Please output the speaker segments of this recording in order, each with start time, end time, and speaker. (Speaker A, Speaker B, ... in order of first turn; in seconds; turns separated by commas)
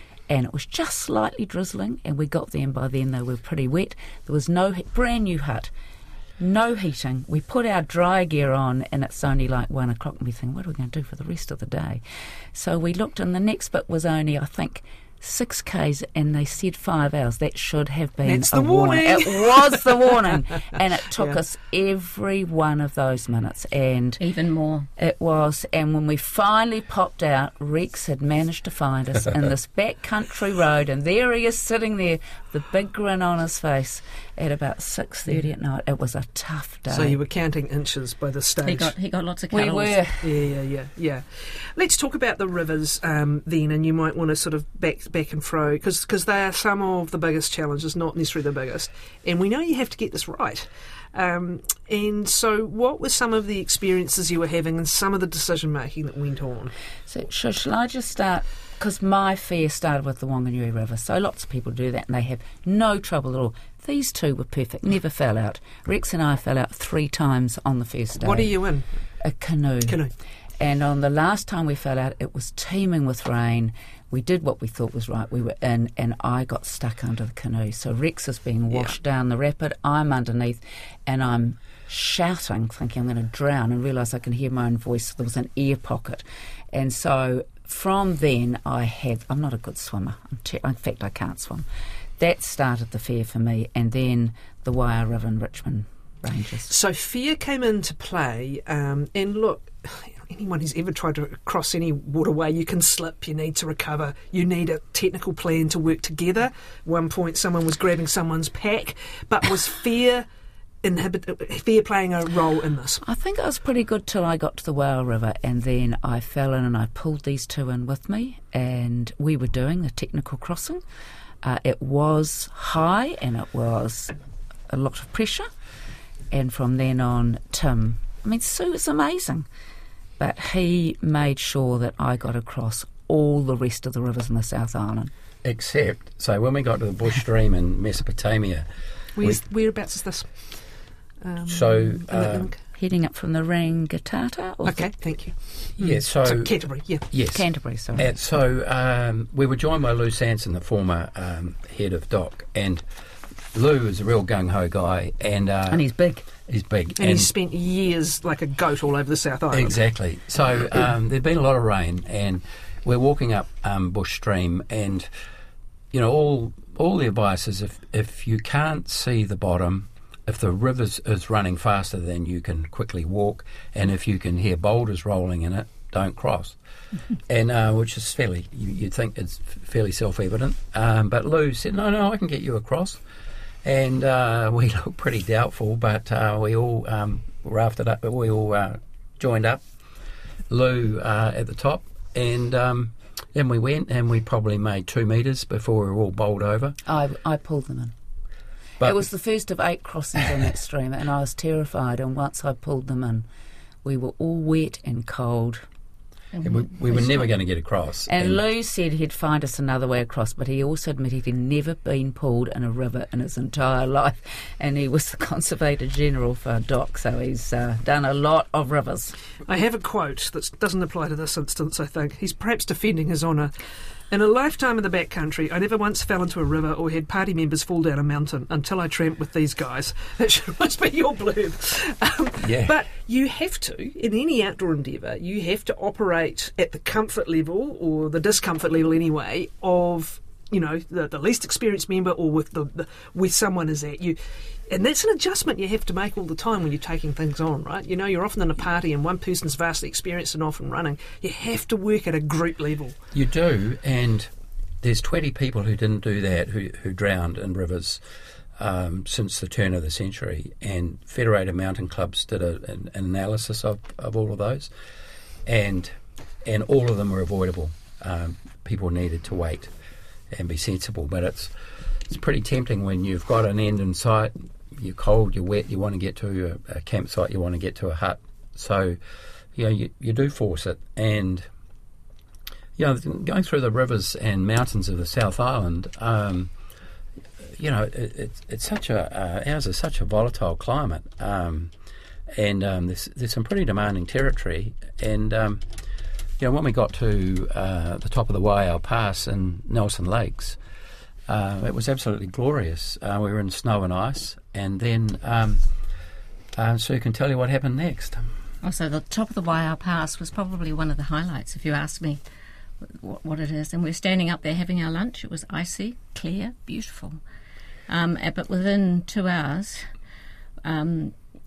Speaker A: 0.3-5.7, Speaker A: 6.4-12.0, Speaker A: 12.5-24.2, Speaker B: 18.2-20.4, Speaker C: 24.2-24.9, Speaker A: 25.0-37.2, Speaker B: 36.9-38.9, Speaker C: 38.6-40.0, Speaker A: 39.5-40.3, Speaker B: 40.2-56.7, Speaker A: 57.1-68.5, Speaker B: 68.2-68.9, Speaker A: 69.2-70.0, Speaker B: 69.9-70.1, Speaker A: 70.6-91.7, Speaker A: 92.2-96.7, Speaker B: 96.7-110.3, Speaker B: 110.8-113.0, Speaker A: 113.0-120.8, Speaker A: 121.4-124.1, Speaker A: 124.7-125.5, Speaker A: 126.3-129.4, Speaker A: 130.2-135.1, Speaker D: 135.4-138.7, Speaker B: 139.2-140.7, Speaker B: 141.2-142.6, Speaker D: 141.5-142.5, Speaker A: 142.8-144.9, Speaker B: 144.7-147.1, Speaker D: 145.8-146.6, Speaker D: 147.1-147.4, Speaker A: 147.3-148.1, Speaker D: 147.9-152.8, Speaker D: 153.5-155.8, Speaker A: 155.7-156.3, Speaker D: 156.4-157.3, Speaker B: 157.0-159.8, Speaker D: 159.5-165.1, Speaker D: 165.9-176.6, Speaker D: 177.3-183.0, Speaker D: 183.6-189.6, Speaker D: 190.5-196.8, Speaker A: 196.9-197.9, Speaker A: 198.8-203.2, Speaker A: 203.8-205.7, Speaker C: 206.3-207.3, Speaker D: 206.4-208.4, Speaker A: 208.1-219.2, Speaker B: 219.4-223.5, Speaker B: 224.1-253.0, Speaker D: 232.4-232.7, Speaker D: 253.1-254.3, Speaker D: 254.8-258.0, Speaker D: 258.6-264.7, Speaker D: 265.4-269.7, Speaker D: 270.3-271.5, Speaker D: 272.1-279.0, Speaker D: 279.5-281.4, Speaker D: 282.8-286.5, Speaker D: 287.4-291.7, Speaker D: 292.3-295.6, Speaker D: 296.4-300.6, Speaker D: 301.3-305.6, Speaker D: 306.6-308.3, Speaker C: 308.6-312.2, Speaker C: 312.8-317.2, Speaker C: 317.9-319.9, Speaker C: 320.6-321.2